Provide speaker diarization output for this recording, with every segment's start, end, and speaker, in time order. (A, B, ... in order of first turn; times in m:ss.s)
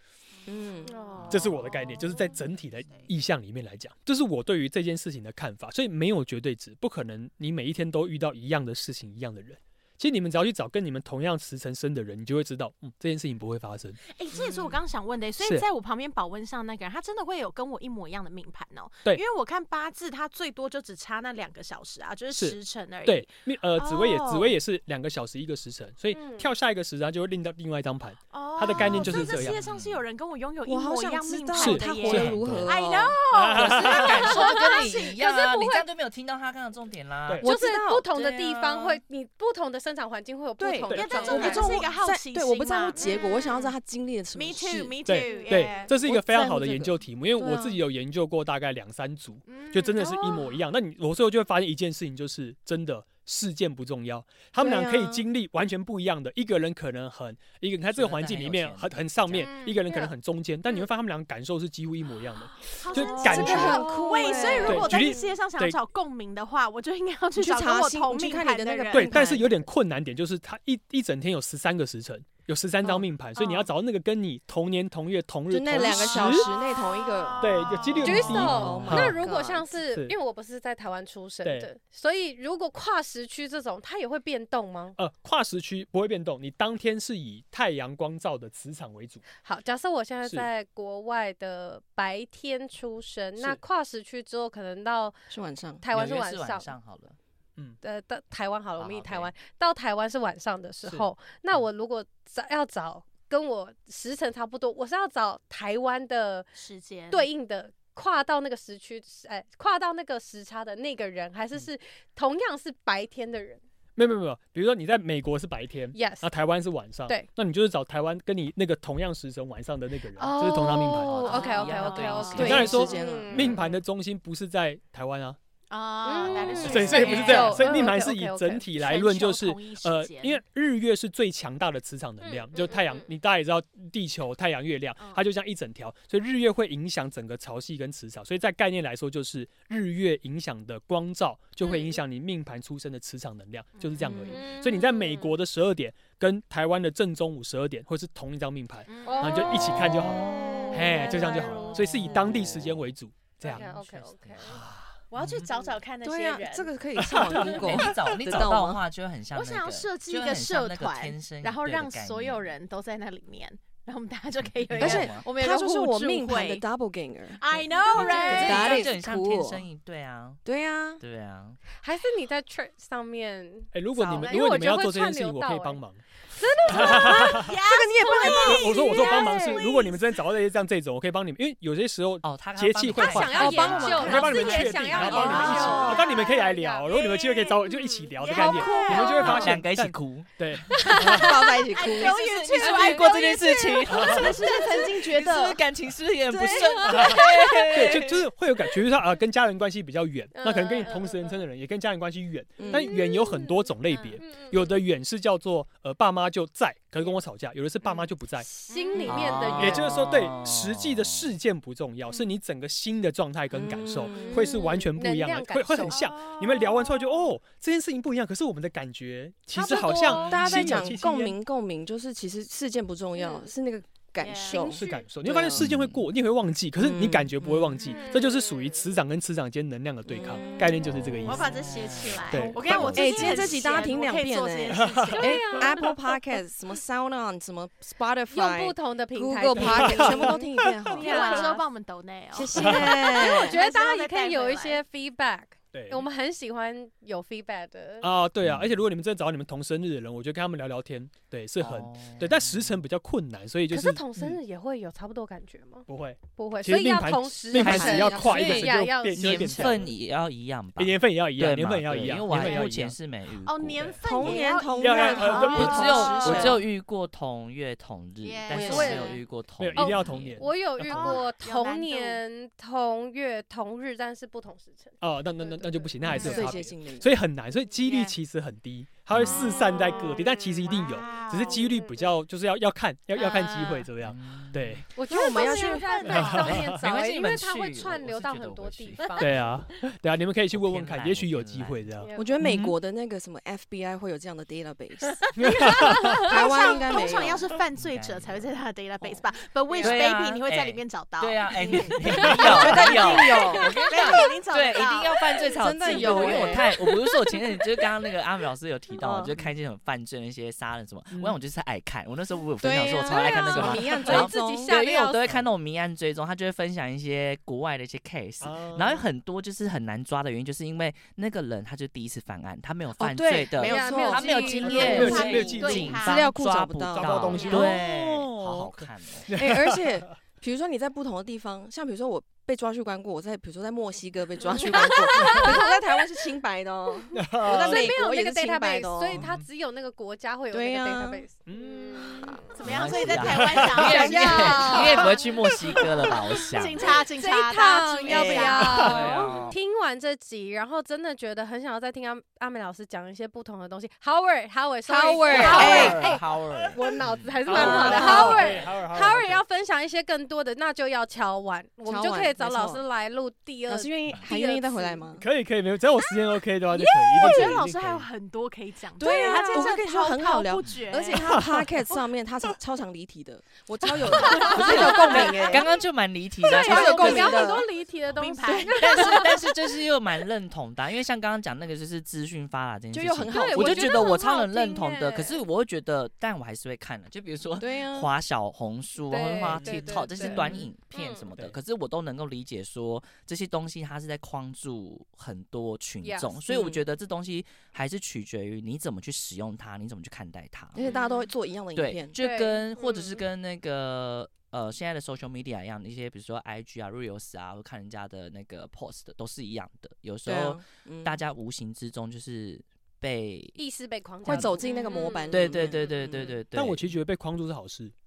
0:00.4-0:02.4 A
0:00.4-0:01.2 B
0:00.9-0:02.2 C
0:01.3-0:14.0 D
0:14.1-0:24.6 A
0:14.3-0:14.8 B
0:15.4-0:15.6 D
0:22.3-0:29.6 D
0:26.1-0:26.5 C
0:28.3-0:34.9 A
0:28.7-0:30.0 E
0:30.6-0:33.2 B
0:31.5-0:32.7 D
0:32.3-0:32.7 E
0:33.3-0:34.4 D
0:33.5-0:37.4 E
0:34.2-0:35.9 C
0:37.4-0:38.6 B
0:37.4-0:41.8 C
0:38.5-0:39.0 A
0:40.6-0:47.8 B
0:40.9-0:41.7 D
0:40.9-0:43.7 A
0:44.4-0:45.9 A
0:45.0-1:03.9 D
0:49.5-0:50.3 A
0:50.0-0:50.3 C
0:54.6-0:55.2 B
0:57.9-0:59.5 E
0:59.4-0:59.8 A
0:59.9-1:00.1 C
1:02.8-1:09.2 A
1:02.9-1:05.1 B
1:03.0-1:04.8 C
1:04.6-1:05.8 D
1:07.4-1:09.6 B
1:08.9-1:16.5 D
1:13.4-1:13.7 A
1:15.5-1:19.7 B
1:16.2-1:18.2 A
1:17.4-1:19.2 D
1:18.0-1:25.0 C
1:18.2-1:19.0 E
1:19.8-1:20.1 D
1:25.0-1:29.2 D
1:29.4-1:35.2 C
1:35.3-1:35.8 B
1:35.8-1:36.7 C
1:35.9-1:37.2 E
1:37.8-1:46.5 C
1:38.8-1:39.3 E
1:46.5-1:47.3 A
1:47.1-1:53.6 C
1:54.0-2:01.2 D
1:55.9-1:56.3 C
2:00.2-2:03.7 C
2:00.9-2:02.8 E
2:01.2-2:02.4 A
2:02.3-2:03.6 B
2:02.4-2:05.4 D
2:05.7-2:07.9 A
2:06.0-2:08.6 C
2:06.3-2:07.9 E
2:06.6-2:33.6 D
2:08.8-2:10.4 A
2:12.2-2:13.0 C
2:15.0-2:15.2 A
2:21.6-2:21.9 A
2:23.8-2:24.4 A
2:24.2-2:25.4 C
2:28.9-2:31.8 A
2:29.0-2:32.4 C
2:29.6-2:30.3 E
2:30.1-2:31.3 B
2:31.9-2:32.8 E
2:33.4-2:34.6 C
2:33.5-2:34.9 E
2:35.1-2:36.7 A
2:35.2-2:35.5 D
2:36.0-2:38.8 B
2:37.0-2:38.4 D
2:37.3-2:42.5 E
2:39.3-2:46.6 A
2:44.6-2:45.2 E
2:44.8-2:49.6 B
2:47.4-2:48.9 A
2:48.0-2:48.7 C
2:48.2-2:50.4 E
2:50.4-2:51.0 B
2:51.0-2:51.6 E
2:51.8-2:57.5 C
2:53.7-2:56.0 D
2:56.7-2:57.5 D
2:56.8-2:59.3 B
2:56.8-2:59.9 A
2:58.0-2:59.7 C
2:58.4-3:11.4 D
3:02.2-3:05.2 E
3:02.9-3:09.5 C
3:03.3-3:06.0 B
3:05.1-3:05.9 A
3:08.2-3:09.5 A
3:09.2-3:11.0 E
3:10.7-3:11.4 C
3:11.0-3:12.2 B
3:11.7-3:15.6 A
3:11.9-3:18.2 E
3:12.6-3:13.1 C
3:13.9-3:14.4 D
3:16.3-3:17.5 C
3:16.9-3:17.2 D
3:17.7-3:28.5 D
3:20.3-3:21.4 C
3:22.6-3:22.9 B
3:22.7-3:24.8 C
3:28.5-3:30.3 C
3:28.7-3:29.5 A
3:29.0-3:31.3 E
3:29.6-3:41.4 D
3:33.5-3:34.7 B
3:34.1-3:34.7 A
3:34.1-3:36.0 C
3:35.9-3:37.3 A
3:39.5-3:40.8 C
3:39.6-3:45.7 B
3:44.2-3:44.8 A
3:44.5-3:45.0 C
3:44.7-3:51.6 D
3:45.5-3:46.0 E
3:46.8-3:47.8 B
3:47.8-3:48.9 C
3:50.0-3:51.4 B
3:51.2-3:55.7 A
3:51.5-3:53.6 E
3:52.3-3:52.6 D
3:52.3-4:01.5 B
3:54.8-3:55.2 D
3:55.1-3:56.0 C
3:58.3-4:01.6 C
3:59.6-4:00.6 D
4:00.9-4:04.8 A
4:02.3-4:03.6 B
4:02.6-4:02.9 D
4:02.7-4:08.1 C
4:05.7-4:06.1 D
4:08.0-4:14.4 D
4:08.4-4:08.8 E
4:11.6-4:12.7 E
4:13.7-4:19.8 C
4:15.9-4:20.0 D
4:17.6-4:18.6 B
4:17.6-4:24.3 E
4:20.8-4:23.0 D
4:22.3-4:22.6 A
4:23.4-4:26.5 A
4:23.8-4:26.6 D
4:24.0-4:26.6 B
4:25.2-4:30.4 E
4:28.2-4:29.2 A
4:28.5-4:29.1 B
4:28.6-4:29.2 C
4:29.6-4:31.2 D
4:29.8-4:36.5 C
4:30.8-4:32.2 A
4:35.0-4:44.8 D
4:36.1-4:37.2 B
4:37.8-4:38.2 A
4:39.1-4:39.6 E
4:39.2-4:41.7 A
4:39.9-4:40.2 C
4:41.0-4:42.1 C
4:43.1-4:43.9 A
4:44.0-4:44.8 E
4:44.9-4:49.4 C
4:45.1-4:46.5 B
4:46.1-4:46.7 D
4:46.2-4:49.4 E
4:49.2-4:52.7 D
4:50.5-4:51.8 E
4:52.0-4:52.4 C
4:52.1-4:57.5 B
4:55.3-5:06.7 A
4:55.4-4:56.3 D
4:57.0-4:58.5 E
4:59.7-5:00.1 C
4:59.8-5:29.4 E
5:02.1-5:03.8 B
5:05.6-5:06.9 B
5:09.0-5:09.3 B
5:11.1-5:11.4 D
5:12.6-5:14.7 B
5:13.1-5:15.3 C
5:18.4-5:19.1 D
5:23.0-5:27.7 B
5:23.6-5:25.4 C
5:24.6-5:26.3 D
5:24.6-5:26.3 A
5:26.9-5:30.1 D
5:27.3-5:27.8 A
5:29.3-5:39.2 B
5:34.4-5:35.7 C
5:37.1-5:37.9 D
5:37.4-5:42.6 C
5:39.1-5:39.4 D
5:40.5-5:41.2 B
5:41.5-5:42.2 D
5:42.0-5:42.4 B
5:42.6-5:49.0 A
5:42.6-5:47.0 E
5:43.1-5:44.0 D
5:43.7-5:45.1 B
5:43.8-5:45.2 C
5:47.1-6:05.1 C
5:47.8-5:48.9 B
5:48.7-5:49.4 D
5:48.8-5:49.6 E
5:54.9-5:56.0 B
5:55.3-5:58.6 E
5:55.6-5:56.1 D
5:57.4-5:59.4 D
5:57.5-5:58.6 B
6:01.9-6:02.8 B
6:03.7-6:05.2 B
6:05.2-6:08.1 D
6:06.7-6:11.4 A
6:07.2-6:07.6 B
6:09.0-6:15.7 B
6:09.1-6:09.4 C
6:11.3-6:11.7 D
6:14.1-6:17.6 E
6:14.2-6:15.6 C
6:14.4-6:15.5 A
6:16.4-6:19.7 C
6:16.4-6:17.7 B
6:18.1-6:19.2 A
6:18.5-6:18.7 B
6:18.8-6:40.8 E
6:22.9-6:24.1 B
6:23.3-6:25.4 C
6:27.6-6:28.1 B
6:29.1-6:31.3 C
6:29.4-6:30.6 D
6:36.0-6:36.4 C
6:36.5-6:36.8 B
6:40.7-6:42.2 B
6:40.8-6:41.3 A
6:41.7-6:53.6 E
6:42.2-6:43.1 C
6:42.8-6:43.1 A
6:50.2-6:51.2 B
6:53.6-6:55.3 C
6:54.2-6:56.4 B
6:54.6-6:56.1 A
6:55.3-6:56.9 E
6:56.5-6:57.9 D